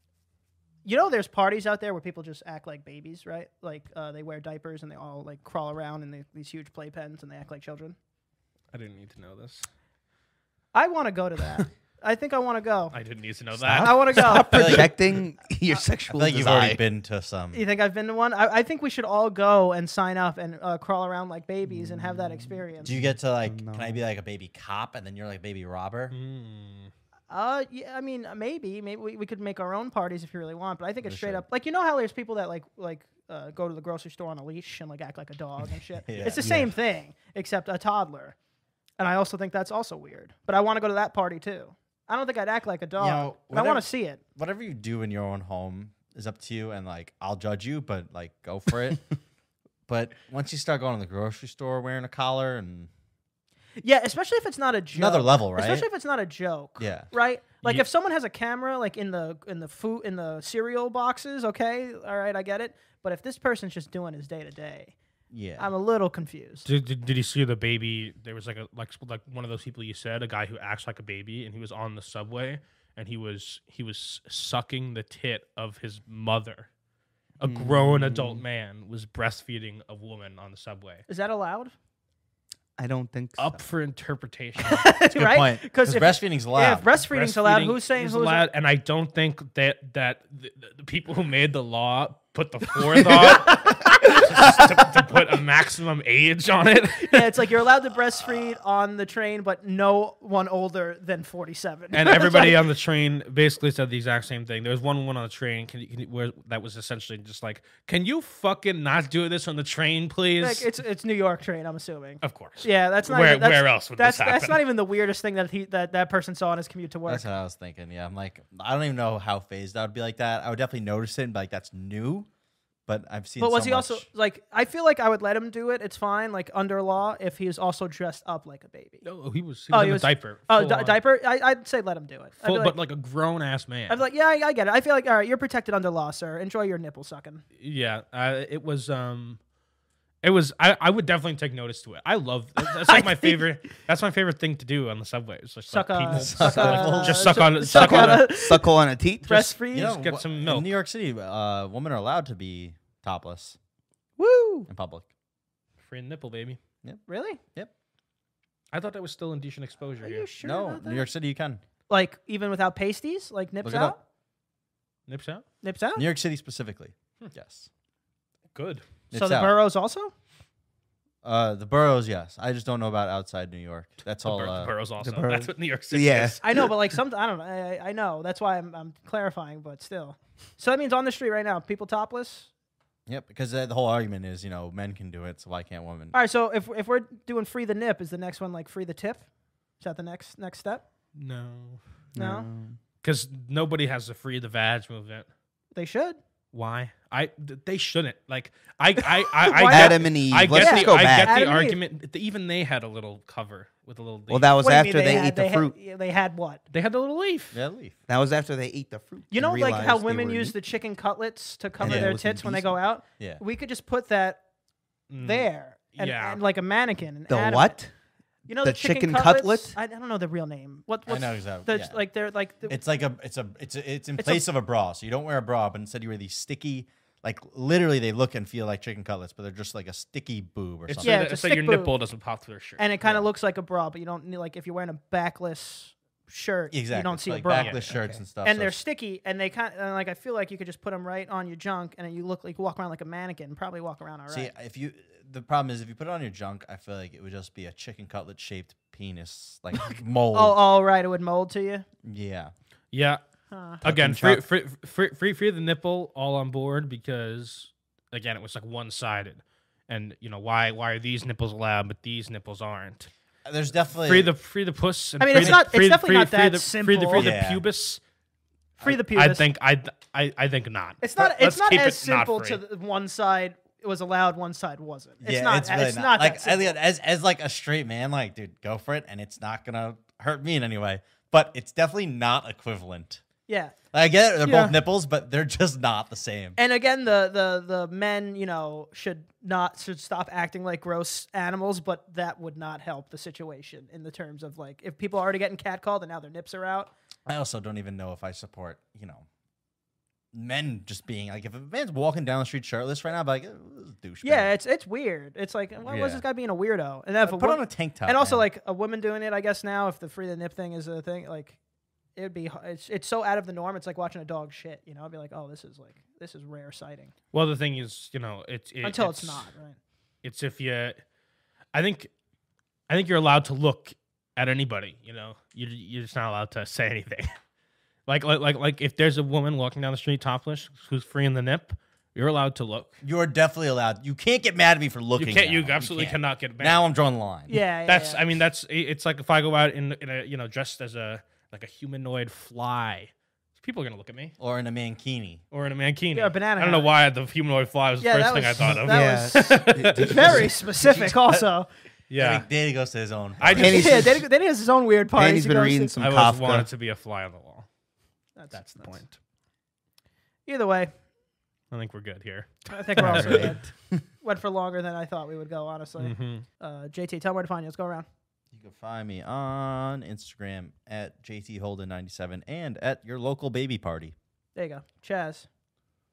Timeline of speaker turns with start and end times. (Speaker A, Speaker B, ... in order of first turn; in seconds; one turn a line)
Speaker A: 0.8-8.0
Speaker B: 8.7-9.7
Speaker A: 10.7-13.0
Speaker B: 12.9-14.8
Speaker C: 13.6-14.9
Speaker A: 13.8-14.8
Speaker D: 14.2-16.8
Speaker C: 16.1-17.6
Speaker A: 17.5-22.9
Speaker D: 21.7-24.0
Speaker C: 22.8-26.1
Speaker B: 26.1-26.9
Speaker A: 27.3-38.4
Speaker C: 31.0-31.4
Speaker C: 36.1-36.5
Speaker D: 36.4-36.7
Speaker A: 39.0-44.2
Speaker C: 43.0-49.0
Speaker C: 49.9-52.9
Speaker A: 53.8-65.0
Speaker C: 55.0-55.9
Speaker C: 56.8-57.1
Speaker C: 65.3-65.7
Speaker A: 65.6-66.7
Speaker B: 66.7-76.7
Speaker B: 77.4-81.0
Speaker D: 77.4-78.4
Speaker A: 81.1-81.7
Speaker D: 82.8-83.6
Speaker B: 83.4-84.9
Speaker A: 84.6-88.5
Speaker C: 85.1-86.9
Speaker B: 87.0-97.4
Speaker A: 97.0-102.6
Speaker B: 101.9-110.7
Speaker A: 110.4-117.3
Speaker B: 112.2-114.6
Speaker C: 117.1-122.3
Speaker C: 122.9-124.1
Speaker A: 123.4-129.0
Speaker B: 129.0-131.0
Speaker A: 129.7-132.8
Speaker B: 132.4-134.0
Speaker A: 133.9-137.4
Speaker B: 137.6-139.4
Speaker B: 140.2-148.3
Speaker A: 142.8-143.4
Speaker A: 145.7-150.0
Speaker C: 146.1-147.5
Speaker D: 147.7-149.5
Speaker C: 149.7-153.6
Speaker B: 149.8-150.7
Speaker A: 154.2-154.7
Speaker C: 154.7-155.1
Speaker B: 155.9-156.6
Speaker A: 157.1-157.4
Speaker B: 158.7-160.3
Speaker A: 160.0-161.1
Speaker C: 160.4-161.6
Speaker A: 161.9-164.0
Speaker C: 163.6-164.0
Speaker B: 165.1-165.4
Speaker A: 165.6-166.1
Speaker C: 166.0-167.7
Speaker B: 168.5-168.8
Speaker C: 169.1-169.6
Speaker A: 169.1-170.1
Speaker C: 171.2-174.7
Speaker B: 174.2-176.4
Speaker D: 175.0-176.7
Speaker A: 176.4-182.5
Speaker C: 183.1-186.2
Speaker A: 186.1-189.3
Speaker A: 189.8-190.8
Speaker B: 191.2-191.8
Speaker D: 192.1-192.8
Speaker A: 192.2-192.5
Speaker B: 193.0-195.3
Speaker A: 195.8-196.2
Speaker B: 196.5-204.5
Speaker A: 199.5-200.0
Speaker D: 199.6-201.4
Speaker A: 200.5-201.8
Speaker D: 204.3-205.8
Speaker A: 204.6-206.6
Speaker B: 206.7-207.6
Speaker C: 207.5-207.9
Speaker D: 208.1-210.6
Speaker A: 209.3-214.4
Speaker D: 211.8-212.8
Speaker C: 211.8-212.1
Speaker B: 215.1-216.4
Speaker A: 215.2-217.8
Speaker D: 217.3-217.9
Speaker A: 218.5-222.8
Speaker D: 218.6-219.8
Speaker C: 221.1-222.0
Speaker C: 222.7-231.2
Speaker A: 224.2-224.4
Speaker B: 230.9-232.8
Speaker A: 231.0-232.0
Speaker A: 232.8-237.8
Speaker C: 233.0-233.3
Speaker C: 236.7-238.8
Speaker B: 237.5-237.9
Speaker D: 237.9-238.2
Speaker A: 238.4-244.5
Speaker C: 244.3-250.6
Speaker A: 249.9-251.9
Speaker C: 252.0-252.5
Speaker B: 252.9-253.2
Speaker A: 253.5-253.8
Speaker B: 253.8-263.1
Speaker C: 253.8-254.5
Speaker C: 263.5-264.3
Speaker B: 264.0-268.0
Speaker A: 265.2-267.4
Speaker C: 267.2-267.6
Speaker A: 268.8-269.4
Speaker B: 268.8-272.6
Speaker A: 271.0-276.8
Speaker C: 275.2-283.2
Speaker A: 283.5-283.7
Speaker C: 283.9-286.6
Speaker A: 284.4-284.8
Speaker A: 286.6-296.9
Speaker C: 297.3-299.3
Speaker C: 300.3-304.5
Speaker A: 304.2-311.6
Speaker C: 305.8-306.2
Speaker C: 307.2-308.4
Speaker A: 312.2-317.1
Speaker B: 317.3-319.5
Speaker A: 318.8-319.8
Speaker B: 320.2-321.0
Speaker B: 321.7-322.1
Speaker B: 322.9-327.3
Speaker B: 328.1-333.0
Speaker C: 333.0-337.5
Speaker B: 335.2-336.8
Speaker A: 337.5-338.2
Speaker B: 337.9-344.4
Speaker C: 344.4-345.4
Speaker B: 345.5-350.4
Speaker A: 346.1-346.9
Speaker A: 348.0-351.7
Speaker D: 348.9-350.6
Speaker C: 351.0-351.4
Speaker B: 352.1-352.5
Speaker C: 352.2-353.8
Speaker B: 353.4-354.1
Speaker D: 353.4-354.2
Speaker A: 353.6-355.9
Speaker D: 355.1-356.7
Speaker B: 356.0-357.7
Speaker A: 358.4-359.0
Speaker B: 358.5-359.2
Speaker A: 360.5-360.9
Speaker B: 361.7-363.6
Speaker A: 362.7-363.7
Speaker D: 363.0-363.6
Speaker A: 364.2-368.1
Speaker B: 366.0-366.5
Speaker C: 368.5-374.1
Speaker A: 374.6-375.5